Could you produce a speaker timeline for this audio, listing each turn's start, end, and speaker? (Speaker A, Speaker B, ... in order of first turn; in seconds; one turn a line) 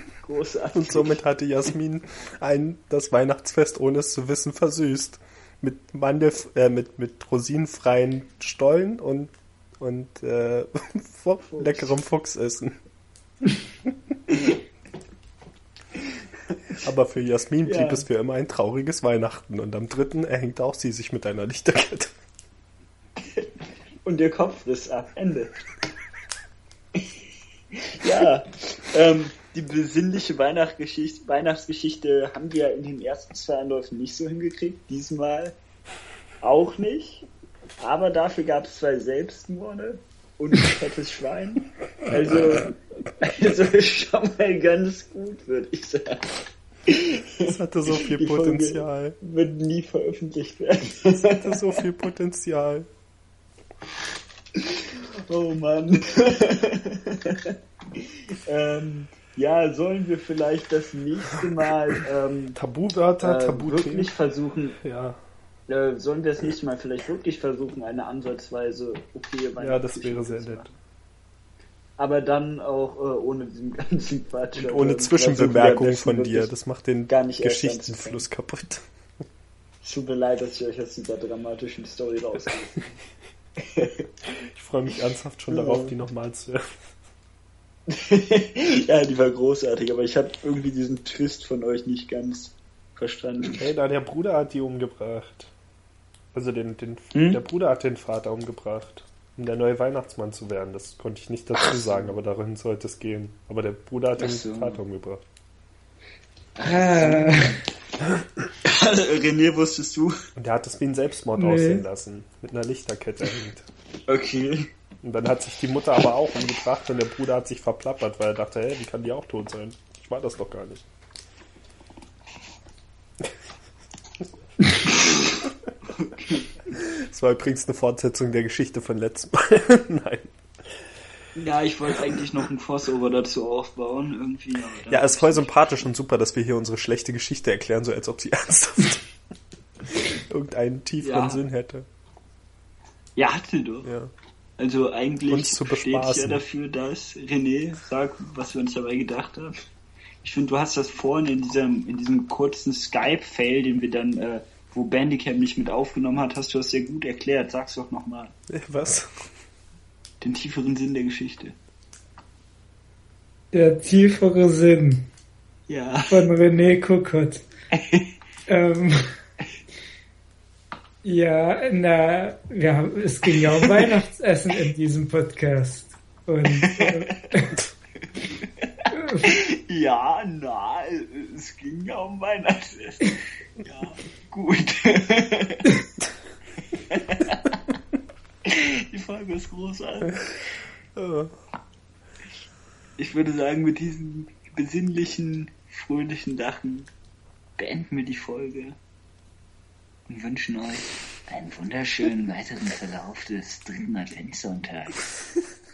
Speaker A: 0.2-1.2
Speaker B: 0.7-12.8
Speaker A: 11.5-11.9
Speaker B: 16.8-22.1
Speaker A: 17.6-18.1
Speaker A: 24.1-25.5
Speaker A: 27.7-35.5
Speaker A: 36.4-37.3
Speaker A: 37.8-51.8
Speaker B: 47.4-49.2
Speaker B: 51.1-52.9
Speaker A: 54.6-62.6
Speaker B: 62.5-64.1
Speaker A: 63.2-64.8
Speaker B: 64.8-65.2
Speaker A: 65.7-70.7
Speaker B: 69.6-70.7
Speaker A: 72.0-76.5
Speaker B: 74.5-78.8
Speaker A: 77.1-78.3
Speaker A: 79.8-82.9
Speaker A: 83.6-84.1
Speaker B: 84.4-86.6
Speaker A: 85.5-86.0
Speaker A: 87.9-93.7
Speaker B: 93.6-95.5
Speaker B: 96.3-105.2
Speaker A: 97.1-97.4
Speaker A: 101.9-102.1
Speaker A: 104.2-104.8
Speaker A: 106.6-107.4
Speaker C: 106.6-107.6
Speaker A: 108.7-110.2
Speaker B: 110.4-113.7
Speaker C: 111.4-111.8
Speaker A: 114.1-114.7
Speaker B: 115.0-120.9
Speaker A: 126.0-126.5
Speaker B: 126.7-130.3
Speaker A: 131.4-135.5
Speaker B: 134.9-139.1
Speaker B: 139.9-141.9
Speaker A: 141.0-141.4
Speaker A: 143.2-143.9
Speaker B: 143.8-144.1
Speaker A: 144.6-149.6
Speaker B: 145.3-146.4
Speaker A: 150.2-158.3
Speaker B: 158.5-159.2
Speaker A: 160.2-161.6
Speaker C: 163.5-165.1
Speaker A: 165.7-166.2
Speaker C: 166.1-167.4
Speaker A: 167.8-168.1
Speaker C: 168.5-169.1
Speaker C: 171.0-177.5
Speaker A: 173.6-173.9
Speaker A: 176.6-177.2
Speaker A: 178.2-178.7
Speaker C: 178.9-179.3
Speaker A: 179.2-185.8
Speaker A: 186.8-187.5
Speaker A: 188.5-190.3
Speaker B: 191.0-191.3
Speaker A: 193.0-196.9
Speaker A: 197.6-198.8
Speaker A: 200.1-205.0